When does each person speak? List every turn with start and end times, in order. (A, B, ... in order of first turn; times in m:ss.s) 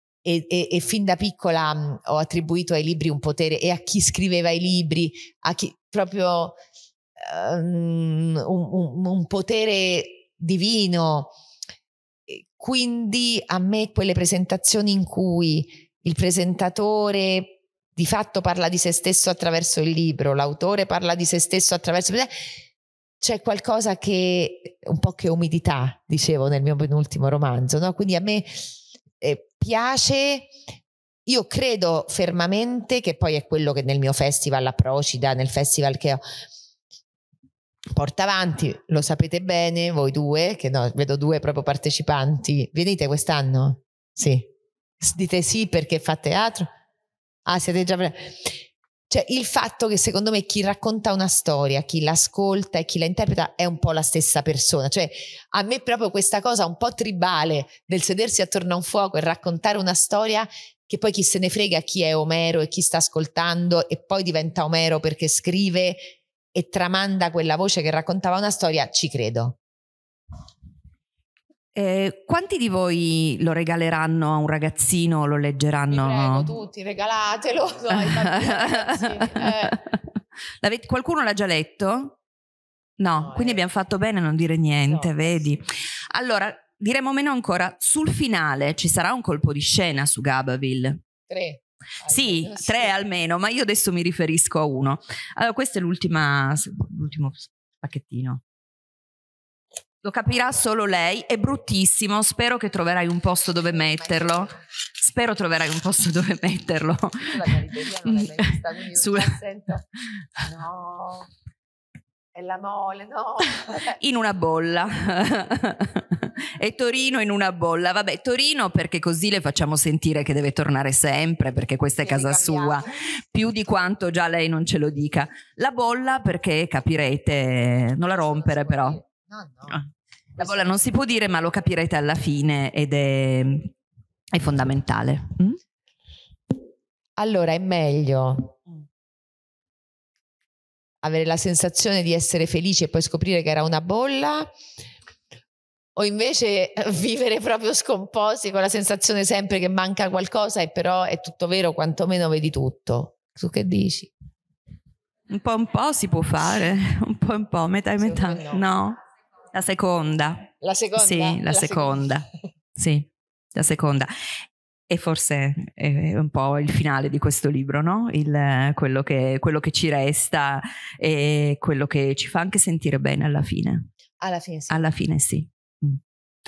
0:00.2-0:06.6 A
0:07.2-0:11.3 A
0:12.3-0:22.4 A
0:23.2-0:28.7 A
0:29.2-0:30.5 A
0:31.3-0:36.2 A
0:38.0-0:46.7 A
0:47.4-1:09.6 A
1:11.7-1:16.5 B
1:15.9-1:19.8 A
1:17.9-1:20.0 B
1:20.6-1:22.2 B
1:23.0-1:31.0 B
1:23.2-1:23.6 A
1:24.8-1:25.6 A
1:31.3-1:32.9 A
1:32.1-1:38.4 B
1:40.0-1:47.5 B
1:44.1-1:44.6 A
1:47.3-1:49.8 A
1:48.0-1:49.4 B
1:50.4-1:51.3 A
1:52.4-1:54.0 A
1:54.0-2:09.0 B
2:02.0-2:02.9 A
2:08.1-2:09.8 A
2:09.7-2:13.7 B
2:14.3-2:15.6 B
2:17.2-2:18.6 A
2:21.0-2:24.5 A
2:26.0-2:34.1 A
2:35.3-2:39.0 B
2:38.0-2:38.6 A
2:39.5-2:44.1 B
2:40.6-2:42.0 A
2:44.9-2:53.9 B
2:54.2-2:54.9 A
2:54.7-2:56.0 B